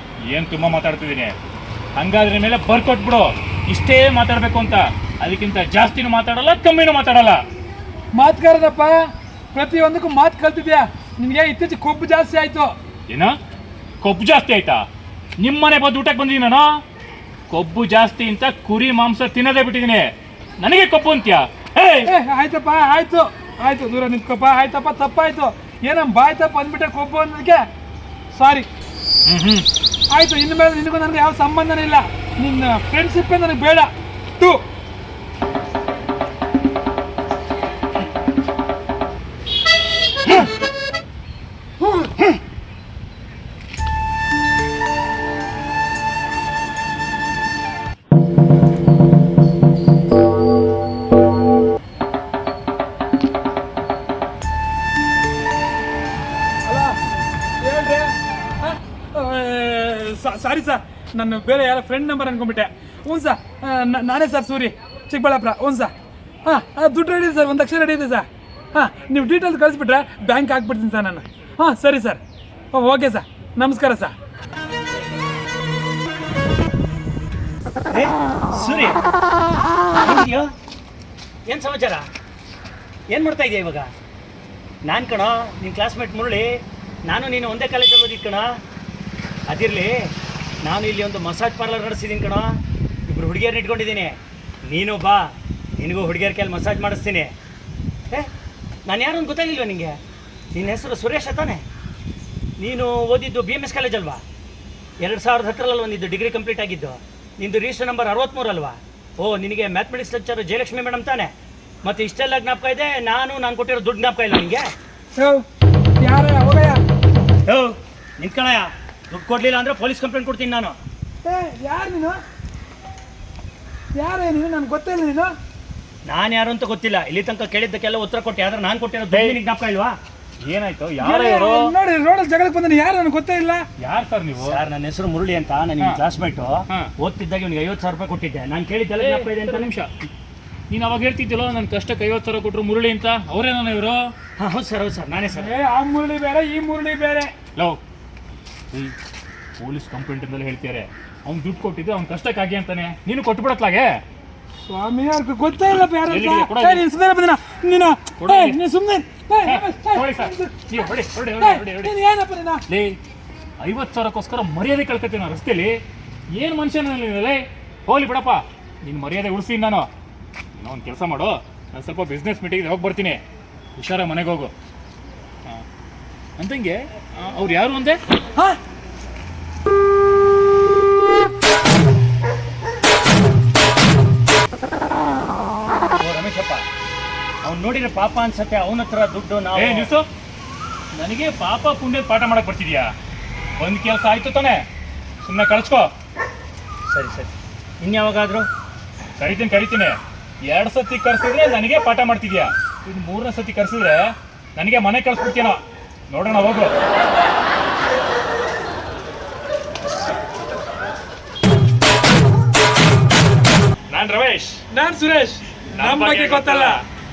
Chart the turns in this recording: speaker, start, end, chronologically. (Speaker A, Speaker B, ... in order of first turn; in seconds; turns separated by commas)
Speaker A: 0.3-1.3, Speaker A: 1.9-7.4, Speaker B: 8.2-12.7, Speaker A: 14.0-14.8, Speaker A: 15.4-16.7, Speaker A: 17.5-22.1, Speaker B: 22.1-27.6, Speaker B: 28.3-28.7, Speaker A: 29.2-29.7, Speaker B: 30.1-34.6, Speaker B: 56.6-57.0, Speaker B: 57.6-65.9, Speaker B: 66.5-72.2, Speaker B: 72.7-74.1, Speaker C: 77.9-79.0, Speaker C: 80.0-80.5, Speaker C: 81.5-82.0, Speaker C: 83.1-83.9, Speaker C: 84.8-86.5, Speaker C: 87.0-88.5, Speaker C: 89.5-90.1, Speaker C: 90.6-92.5, Speaker C: 93.1-97.3, Speaker C: 98.9-100.0, Speaker C: 100.5-101.6, Speaker C: 102.6-104.2, Speaker C: 105.0-111.3, Speaker C: 111.8-114.7, Speaker B: 115.1-115.4, Speaker B: 116.0-116.8, Speaker C: 117.5-120.7, Speaker B: 121.2-122.2, Speaker B: 124.0-125.3, Speaker C: 126.0-129.9, Speaker A: 129.1-129.4, Speaker A: 130.4-131.7, Speaker B: 131.0-133.6, Speaker A: 133.8-134.6, Speaker C: 134.4-139.7, Speaker A: 139.0-139.9, Speaker A: 140.7-144.1, Speaker C: 144.4-145.5, Speaker B: 145.3-147.3, Speaker A: 149.6-154.0, Speaker B: 154.7-160.9, Speaker A: 155.9-156.8, Speaker A: 158.2-158.6, Speaker A: 159.4-161.9, Speaker B: 161.4-162.6, Speaker A: 162.7-163.0, Speaker A: 163.6-165.8, Speaker A: 166.3-169.9, Speaker A: 170.6-173.2, Speaker A: 173.8-174.5, Speaker A: 176.4-178.0, Speaker C: 186.0-186.6, Speaker C: 187.4-189.9, Speaker A: 189.5-190.1, Speaker A: 190.9-192.9, Speaker A: 193.6-194.6, Speaker A: 195.2-195.9, Speaker C: 196.9-198.5, Speaker A: 199.2-199.9, Speaker A: 200.5-206.7, Speaker A: 213.9-214.6, Speaker B: 214.7-216.8, Speaker A: 215.7-216.8